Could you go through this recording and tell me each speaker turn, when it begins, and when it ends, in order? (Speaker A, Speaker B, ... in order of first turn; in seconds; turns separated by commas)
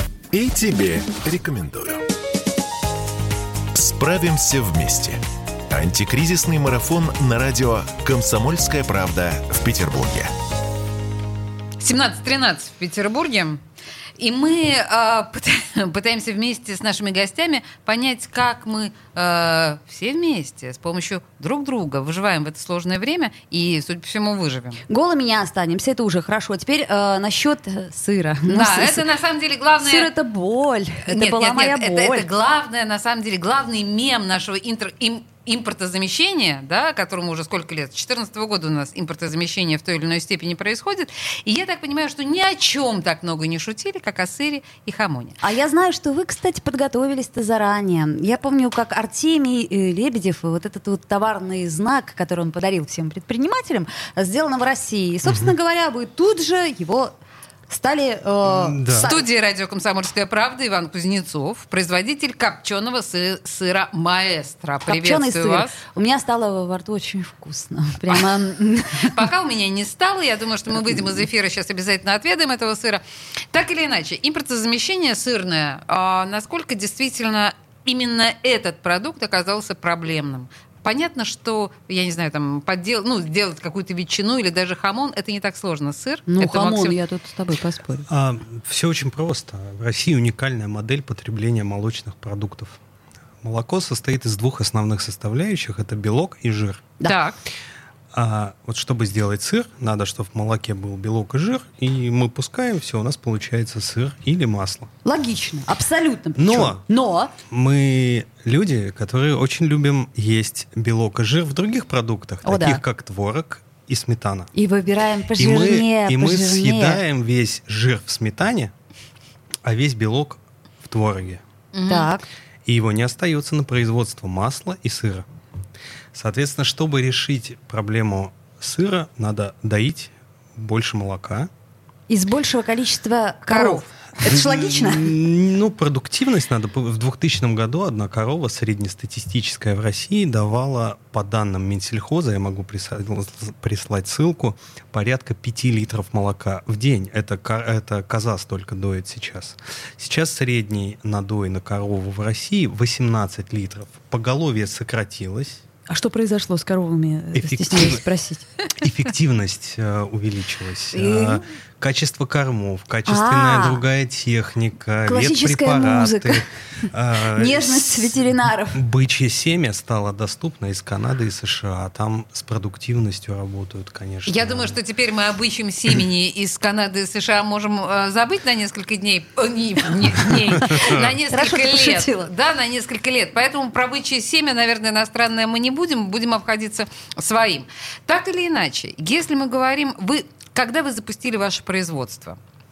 Speaker A: 0.3-2.0, Speaker A: 3.7-10.3, Speaker B: 11.8-13.6, Speaker B: 14.2-24.8, Speaker C: 24.9-29.1, Speaker B: 28.5-30.1, Speaker C: 29.8-32.3, Speaker B: 31.1-45.4, Speaker C: 45.4-57.1, Speaker D: 55.3-55.5, Speaker C: 57.7-59.3, Speaker D: 58.5-59.1, Speaker B: 59.0-65.8, Speaker C: 64.8-69.2, Speaker B: 69.0-87.0, Speaker C: 86.3-88.1, Speaker D: 88.1-92.8, Speaker D: 93.4-96.9, Speaker B: 97.0-97.4, Speaker D: 98.1-104.9, Speaker C: 105.0-107.3, Speaker D: 106.4-106.8, Speaker D: 107.5-114.5, Speaker C: 112.4-112.8, Speaker C: 114.5-117.0, Speaker D: 115.3-118.7, Speaker D: 119.7-121.4, Speaker B: 121.7-122.1, Speaker C: 121.9-122.2, Speaker D: 122.7-125.3, Speaker D: 126.1-131.5, Speaker C: 132.1-135.2, Speaker B: 133.5-133.9, Speaker D: 134.3-155.6, Speaker C: 155.9-158.4, Speaker D: 157.3-158.0, Speaker D: 158.8-174.8, Speaker C: 160.9-161.4, Speaker C: 163.1-163.8, Speaker C: 165.1-166.4, Speaker C: 167.2-168.8, Speaker B: 174.3-192.4, Speaker D: 180.6-181.0, Speaker C: 181.3-182.2